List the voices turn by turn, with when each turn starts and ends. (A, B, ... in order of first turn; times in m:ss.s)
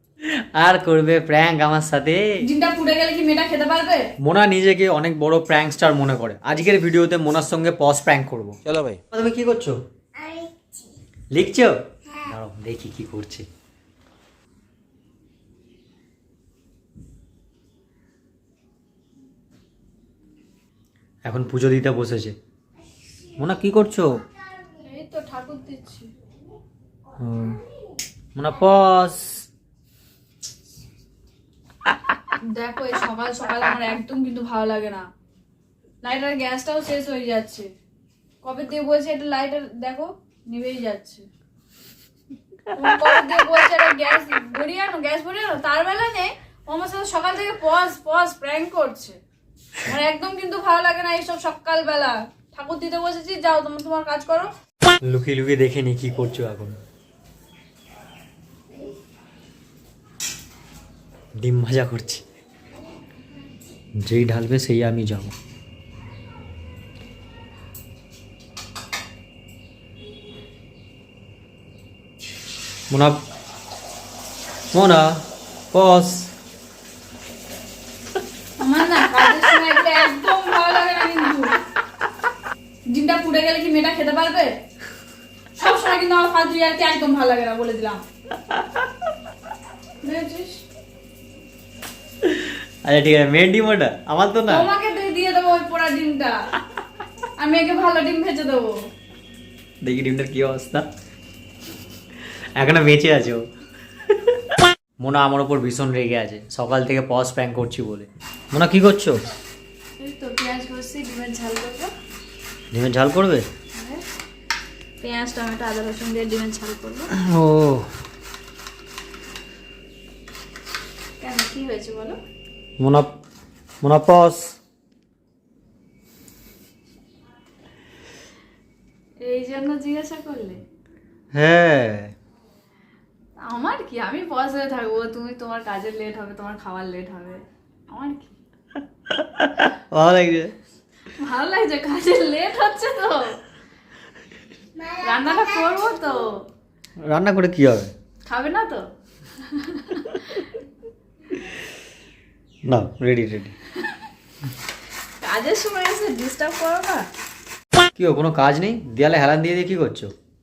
0:00.6-0:02.4 A
0:02.4-0:04.1 B
0:04.2-0:09.8 A
0:11.3-0:13.5 A
0:21.2-0:22.4 A
0:23.4-0:24.2 A
0:24.8-0:26.1 B
0:27.2-0:27.6 A
0:28.4-0:29.5 A
0:32.4-0:35.1 B
0:36.0-0:37.7 B
0:38.4-0:41.3 B
0:42.7-0:49.2 B
0:49.8-0:54.5 B
0:55.0-0:56.8 A
1:01.4-1:02.2 A
1:04.0-1:05.3 A
1:12.9-1:13.2 A
1:14.7-1:16.3 A
1:18.6-1:21.6 B
1:22.9-1:24.6 B
1:25.6-1:28.0 B
1:30.0-1:30.6 B
1:32.8-1:34.7 A
1:34.5-1:36.5 B
1:37.4-1:38.8 B
1:39.8-1:40.9 A
1:42.6-1:43.5 A
1:45.0-1:49.2 A
1:50.0-1:51.9 B
1:52.7-1:53.5 A
1:53.8-1:54.0 B
1:55.0-1:57.1 B
1:57.1-1:57.9 A
2:01.2-2:02.2 B
2:02.8-2:03.1 A
2:03.8-2:04.6 A
2:09.2-2:10.6 B
2:11.3-2:12.1 A
2:13.4-2:18.4 B
2:19.6-2:20.5 A
2:21.2-2:23.4 B
2:24.9-2:26.5 B
2:27.0-2:27.9 A
2:28.2-2:28.9 B
2:29.5-2:30.4 B
2:32.7-2:33.5 A
2:35.2-2:37.1 B
2:38.0-2:40.1 A